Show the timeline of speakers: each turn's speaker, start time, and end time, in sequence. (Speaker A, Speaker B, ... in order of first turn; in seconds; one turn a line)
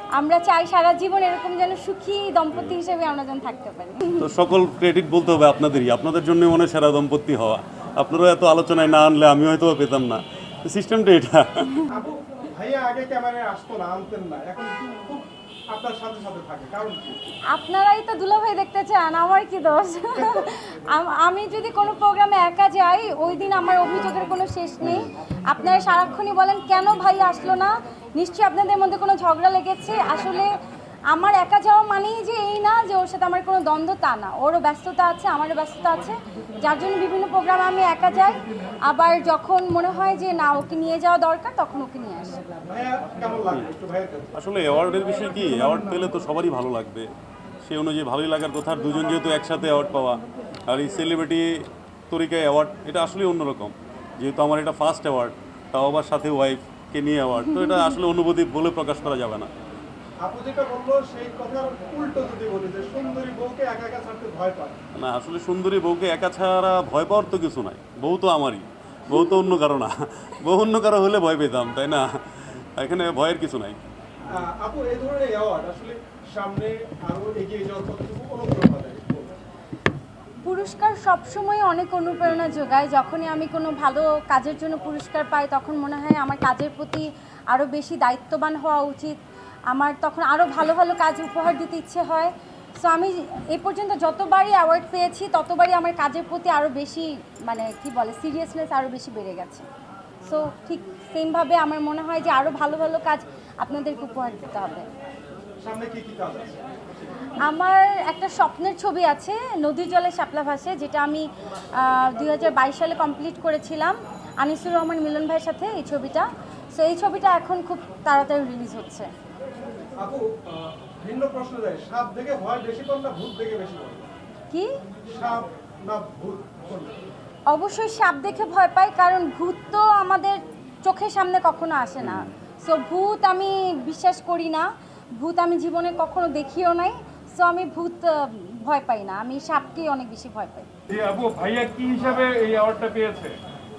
Speaker A: 0.1-4.2
Speaker B: 4.2-11.7
Speaker C: 11.9-17.2
Speaker A: 17.5-42.4
Speaker C: 20.1-20.5
Speaker B: 24.8-25.1
Speaker C: 42.6-44.4
Speaker B: 44.3-59.5
Speaker A: 57.5-57.9
Speaker C: 60.2-64.8
Speaker B: 64.9-73.9
Speaker A: 69.1-69.5
Speaker C: 74.3-79.3
Speaker A: 80.4-89.2
Speaker B: 82.2-82.5
Speaker A: 89.7-99.7
Speaker A: 100.2-104.9
Speaker C: 105.6-106.6
Speaker A: 107.4-119.1
Speaker C: 120.0-124.1
Speaker C: 125.0-127.0
Speaker A: 127.5-140.7
Speaker B: 132.0-132.3
Speaker D: 140.9-143.3